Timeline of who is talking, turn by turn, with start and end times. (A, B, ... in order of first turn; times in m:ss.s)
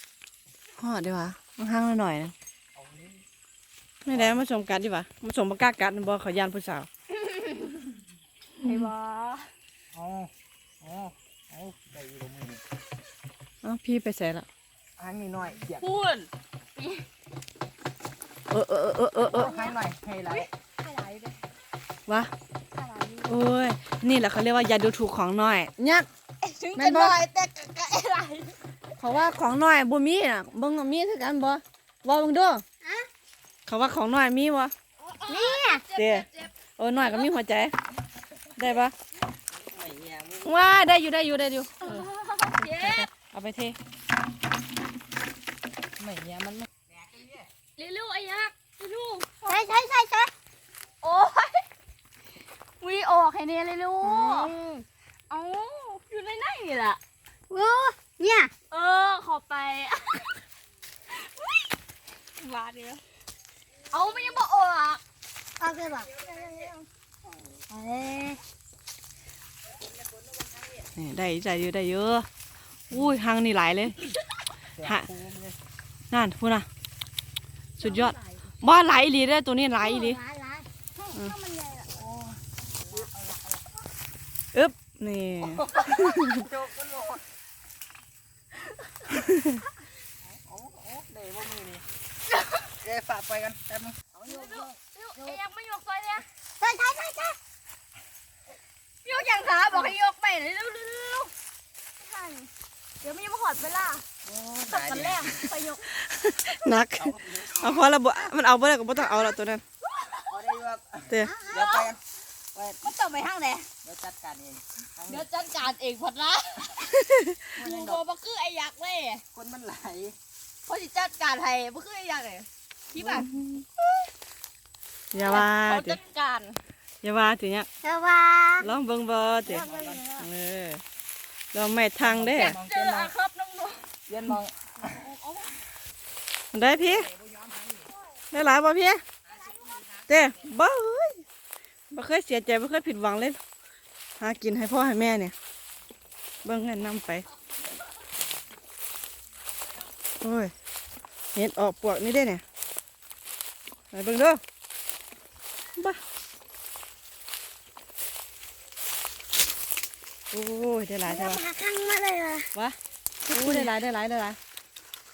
0:00.8-0:02.3 A
0:02.8-0:03.2 B
0:04.0-0:06.9 A
0:04.1-0:04.4 B
0:07.1-0:07.9 C
0:08.6-0:09.5 C
0:09.9-0:12.6 B
0:13.6-0:14.4 A
0:15.0-0:16.0 B
0:15.8-0:17.1 C
0:18.5-0:19.5 A
0:19.3-0:20.5 B
0:19.4-0:19.7 C
0:20.3-0:21.4 C
0:22.8-0:23.4 C
0:23.3-0:26.1 A
0:26.4-0:28.6 C
0:26.7-0:27.2 A
0:29.0-0:32.6 A
0:32.8-0:33.1 D
0:33.7-0:34.7 A
0:35.0-0:37.4 C
0:35.3-0:35.8 D
0:36.0-0:37.8 A
0:38.6-0:38.9 A
0:39.5-0:40.6 B
0:40.4-0:42.0 A
0:41.8-0:43.1 C
0:42.6-0:43.8 A
0:46.0-0:47.5 B
0:47.8-0:49.6 C
0:49.4-0:50.3 D
0:51.0-0:51.6 C
0:52.8-0:54.5 C
0:54.0-0:54.8 D
0:55.3-0:57.0 C
0:57.5-0:58.5 D
0:58.7-1:00.4 C
1:01.1-1:01.6 C
1:02.4-1:03.0 C
1:03.9-1:05.0 C
1:05.6-1:06.7 D
1:06.3-1:06.5 B
1:07.7-1:08.4 D
1:11.0-1:12.3 A
1:12.9-1:14.0 A
1:14.8-1:15.6 B
1:16.1-1:16.7 A
1:17.8-1:20.2 A
1:19.8-1:20.7 D
1:21.0-1:21.8 C
1:22.0-1:23.6 B
1:24.5-1:26.4 A
1:25.4-1:27.2 B
1:29.2-1:29.5 A
1:30.2-1:31.8 B
1:32.8-1:34.6 B
1:34.2-1:36.2 C
1:36.6-1:37.4 D
1:39.0-1:41.3 C
1:42.0-1:42.5 C
1:43.0-1:44.0 C
1:44.2-1:45.4 B
1:44.7-1:45.8 C
1:46.0-1:49.6 A
1:47.0-1:47.8 B
1:50.3-1:52.0 B
1:51.1-1:51.4 A
1:51.2-1:51.8 D
1:52.5-1:52.8 B
1:52.8-1:53.7 C
1:53.8-1:55.3 B
1:55.1-1:57.0 C
1:57.1-1:57.4 A
1:57.6-1:59.2 C
1:57.6-1:58.0 B
1:59.3-2:00.2 B
2:00.7-2:03.3 C
2:03.0-2:03.6 A
2:05.1-2:06.0 A
2:05.2-2:06.6 C
2:07.0-2:07.7 A
2:07.8-2:08.7 D
2:08.6-2:10.8 A
2:09.5-2:10.2 D
2:09.5-2:10.1 B
2:11.5-2:12.6 A
2:12.0-2:13.1 B
2:12.4-2:13.9 C
2:14.1-2:14.9 B
2:14.8-2:15.5 C
2:16.5-2:17.1 A
2:16.8-2:17.9 B
2:18.3-2:19.0 A
2:19.3-2:20.2 B
2:20.1-2:21.2 A
2:21.9-2:23.4 A
2:24.2-2:25.3 A
2:26.4-2:27.3 A
2:30.2-2:30.5 A
2:31.4-2:32.4 A
2:33.9-2:34.4 A
2:40.3-2:41.4 A
2:41.0-2:42.5 D
2:43.3-2:44.4 A